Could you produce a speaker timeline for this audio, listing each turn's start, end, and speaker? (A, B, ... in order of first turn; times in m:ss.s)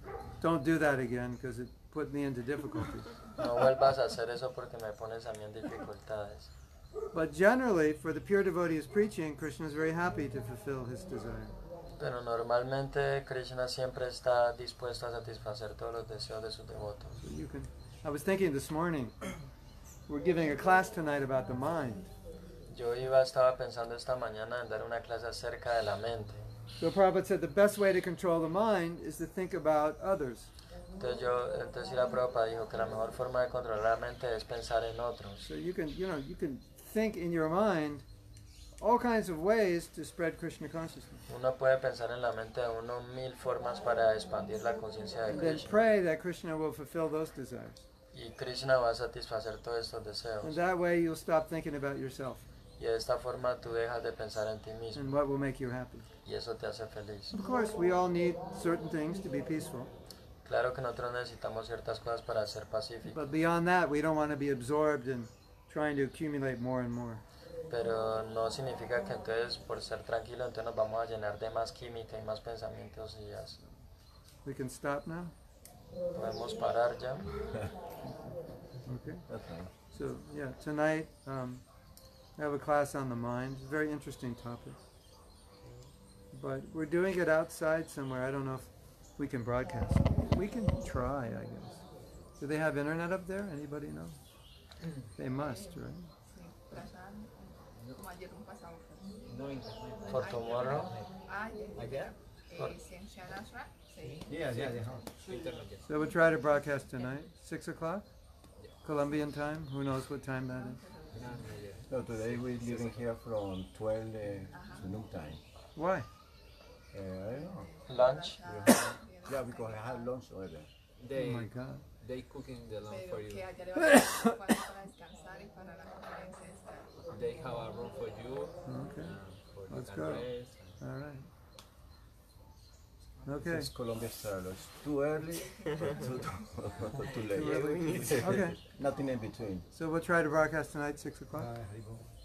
0:00.4-0:03.2 A
0:03.4-0:06.5 B
0:07.1-0:11.6 A
0:12.0-0:17.2 B
0:17.2-0:19.5 A
0:20.1-0:22.1 A
0:22.7-0:26.5 B
0:26.8-0:30.5 A
0:31.0-0:35.4 B
0:35.4-0:38.0 A
0:38.8-0:41.2 A
0:41.3-0:45.8 B
0:45.3-0:47.8 A
0:48.1-0:50.6 B
0:50.4-0:52.5 A
0:52.8-0:55.1 B
0:55.0-0:56.1 A
0:56.2-0:57.3 B
0:57.3-0:59.9 A
1:00.4-1:03.3 B
1:03.0-1:07.2 A
1:07.7-1:13.6 B
1:14.4-1:15.3 A
1:16.1-1:17.3 B
1:18.0-1:24.8 A
1:19.2-1:19.7 C
1:25.6-1:25.9 D
1:26.3-1:34.2 A
1:35.2-1:36.1 A
1:36.3-1:39.4 E
1:37.7-1:38.0 D
1:39.2-1:41.1 D
1:40.1-1:44.4 E
1:40.1-1:40.9 B
1:41.8-1:42.1 F
1:41.8-1:42.1 D
1:44.0-1:46.0 D
1:44.3-1:45.6 F
1:45.8-1:48.1 A
1:48.8-1:50.8 A
1:50.5-1:51.6 E
1:51.1-1:53.1 D
1:51.9-1:55.4 C
1:54.5-1:55.1 E
1:55.8-1:56.1 A
1:56.9-1:57.7 C
1:57.3-2:00.1 E
1:57.9-1:58.4 B
1:58.4-2:00.7 C
2:01.0-2:03.6 D
2:01.1-2:01.8 A
2:02.8-2:07.2 E
2:03.9-2:04.2 A
2:07.1-2:10.8 D
2:08.6-2:11.3 A
2:13.2-2:13.7 A
2:13.3-2:19.7 C
2:17.3-2:18.6 A
2:19.7-2:21.5 A
2:21.3-2:22.1 F